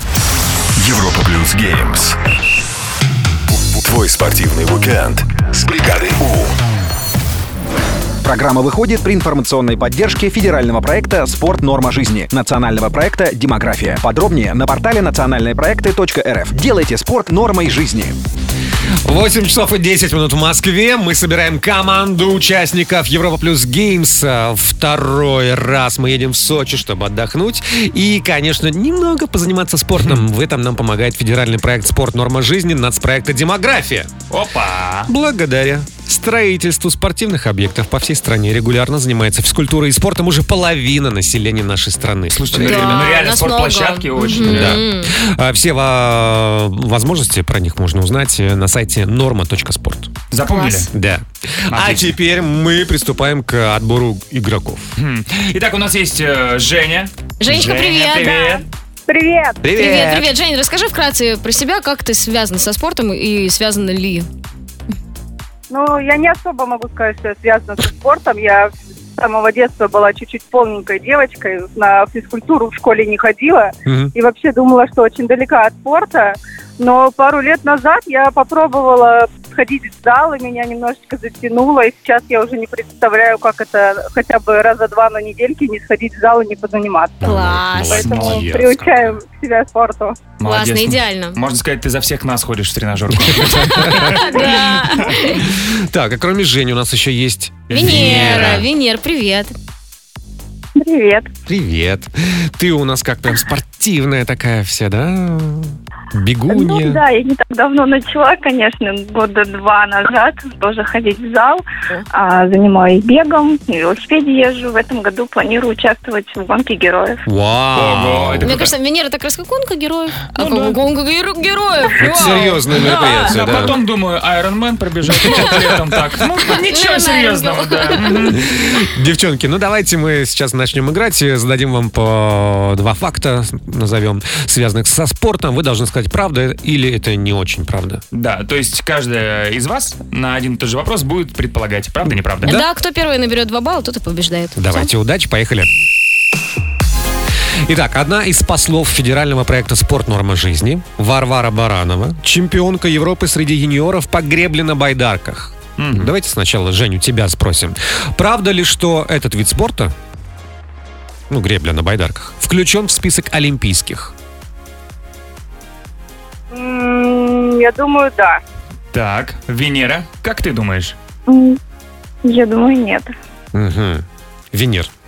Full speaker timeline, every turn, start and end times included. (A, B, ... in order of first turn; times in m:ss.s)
0:00.8-0:02.2 A
0:03.5-0:06.6 A
0:08.2-0:18.2 B
0:19.0-0:34.1 C
0:34.3-0:35.1 D
0:35.1-0:43.1 C
0:42.3-0:44.8 D
0:42.6-0:45.1 E
0:44.4-0:50.1 C
0:50.3-0:50.9 D
0:50.5-0:50.8 E
0:50.9-0:54.9 C
0:51.7-0:52.1 D
0:55.0-0:58.6 D
0:57.4-0:58.6 E
0:59.1-0:59.6 F
0:59.6-1:00.3 C
0:59.7-1:04.3 E
1:05.7-1:27.3 F
1:13.8-1:14.1 C
1:27.2-1:29.2 C
1:27.2-1:28.3 E
1:27.8-1:30.2 F
1:28.0-1:28.4 D
1:30.4-1:34.3 D
1:30.4-1:31.4 E
1:33.2-1:34.2 C
1:33.8-1:35.4 E
1:35.4-1:38.6 C
1:37.7-1:38.6 D
1:37.7-1:39.5 E
1:40.8-1:41.3 G
1:41.5-1:47.0 C
1:46.5-1:57.2 G
1:57.2-1:58.6 C
1:57.7-1:58.7 D
1:58.4-2:03.4 E
2:00.3-2:00.8 D
2:02.0-2:03.8 C
2:02.7-2:08.4 D
2:05.2-2:05.8 C
2:06.6-2:08.2 E
2:08.3-2:18.0 C
2:18.1-2:22.6 D
2:22.0-2:22.6 C
2:22.4-2:24.9 E
2:24.6-2:25.7 C
2:27.6-2:39.9 C
2:35.8-2:36.1 D
2:41.3-2:44.1 C
2:46.5-2:48.4 F
2:48.9-2:50.9 D
2:51.3-2:51.6 G
2:52.2-2:53.1 G
2:53.5-2:54.9 C